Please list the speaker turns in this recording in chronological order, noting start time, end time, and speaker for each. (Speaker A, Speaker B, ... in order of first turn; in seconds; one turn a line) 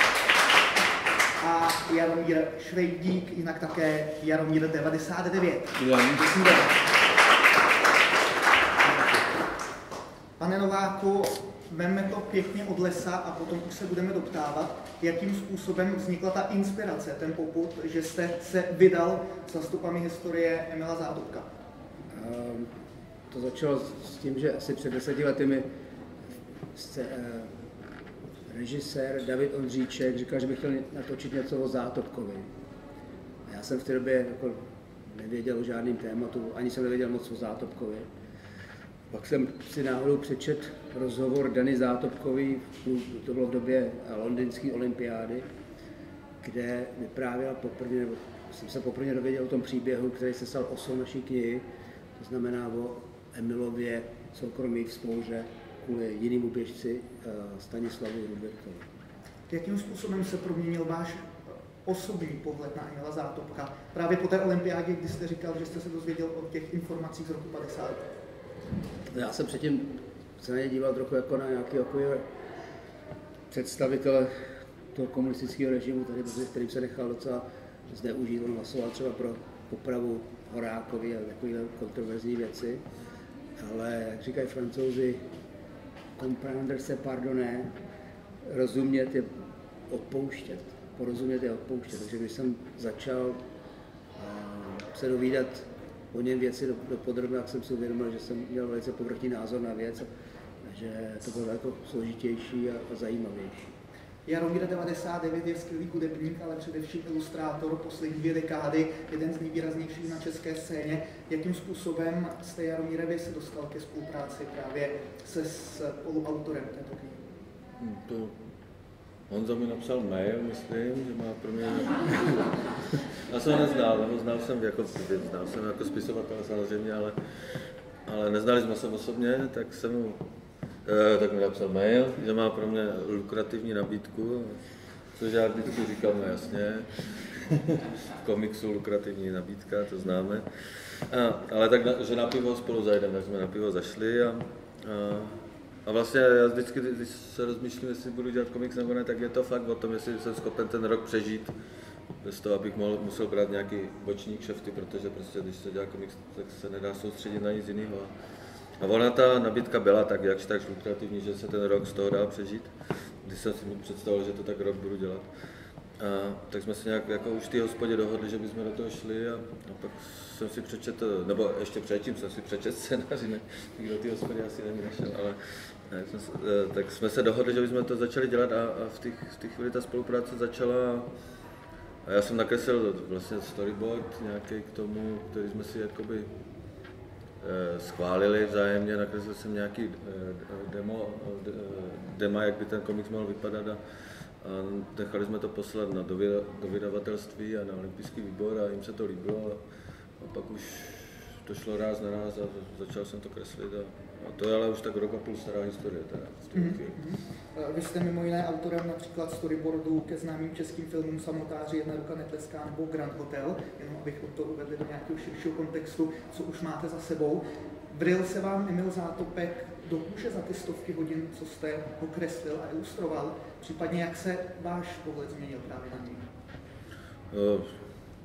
Speaker A: 1.4-6.8
Speaker B: 5.8-6.2
Speaker A: 10.4-21.5
Speaker C: 22.1-22.7
Speaker C: 23.3-25.6
Speaker C: 26.7-27.5
Speaker C: 28.5-32.5
Speaker C: 33.5-38.1
Speaker C: 39.1-45.5
Speaker C: 46.4-51.6
Speaker C: 52.2-58.9
Speaker A: 59.5-68.0
Speaker C: 69.1-72.2
Speaker C: 73.5-82.8
Speaker C: 83.6-85.2
Speaker C: 86.2-87.7
Speaker C: 88.4-89.3
Speaker C: 89.9-93.4
Speaker C: 94.2-100.1
Speaker C: 100.6-103.8
Speaker A: 104.2-117.2
Speaker B: 117.8-118.3
Speaker B: 119.3-127.1
Speaker B: 128.1-130.2
Speaker B: 130.8-134.6
Speaker B: 135.1-151.5
Speaker B: 152.2-158.1
Speaker B: 158.8-162.7
Speaker B: 163.2-165.3
Speaker B: 166.0-181.1
Speaker B: 182.0-186.3
Speaker B: 187.4-193.8
Speaker B: 194.4-199.6
Speaker B: 200.2-207.0
Speaker A: 206.5-226.3
Speaker B: 227.3-227.7